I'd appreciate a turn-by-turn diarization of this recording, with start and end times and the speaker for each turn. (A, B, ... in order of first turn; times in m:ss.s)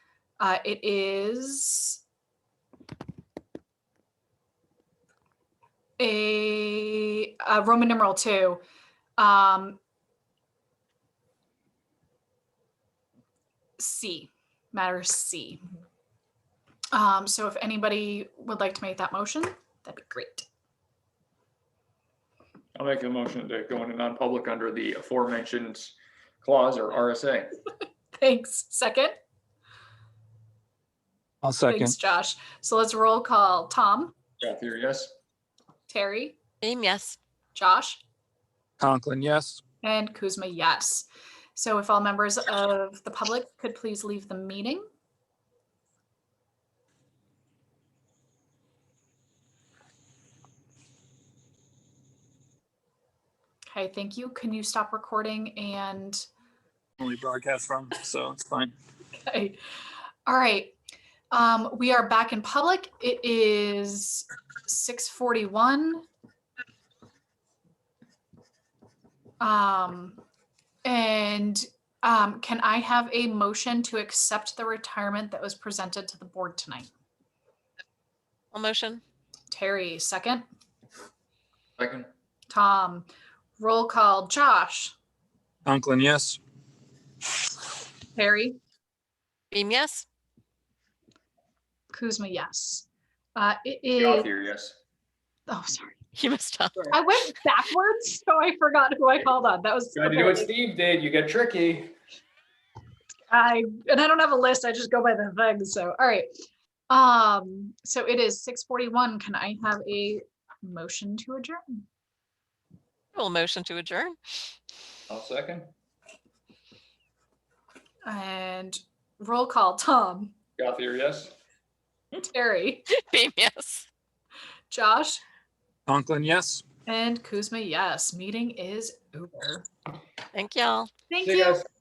0:00.4-0:02.0 A
0:06.0-0:08.6 A
0:09.2-0:09.8 A
0:13.8-0:15.6 A
0:16.9-0:20.5 A
0:22.8-0:27.6 B
0:28.2-0:29.1 A
0:31.4-0:32.0 C
0:31.7-0:34.2 A
0:34.4-0:35.1 B
0:35.9-0:36.4 A
0:36.6-0:37.2 D
0:37.6-0:38.0 A
0:38.8-0:39.6 C
0:39.8-0:44.8 A
0:53.7-0:56.2 A
0:57.0-0:58.7 C
0:59.2-0:59.6 A
1:00.3-1:00.7 A
1:01.3-1:06.0 A
1:09.4-1:10.2 A
1:10.8-1:16.9 A
1:18.5-1:19.0 D
1:19.5-1:20.4 A
1:21.8-1:22.1 B
1:22.5-1:23.1 A
1:23.6-1:24.9 A
1:25.6-1:26.4 C
1:28.1-1:28.6 A
1:29.5-1:30.0 D
1:31.9-1:32.8 A
1:33.4-1:34.3 A
1:34.0-1:34.8 B
1:35.5-1:36.0 A
1:36.1-1:36.9 D
1:36.9-1:40.5 A
1:40.0-1:41.9 B
1:43.3-1:46.3 A
1:46.9-1:51.8 A
1:53.1-1:54.2 D
1:55.1-1:55.7 B
1:58.1-2:00.3 A
2:00.6-2:01.3 B
2:02.2-2:02.9 A
2:02.9-2:03.8 D
2:04.7-2:05.2 A
2:05.9-2:06.6 C
2:06.9-2:09.6 A
2:10.3-2:10.9 D
2:11.1-2:11.7 A
2:11.2-2:11.6 B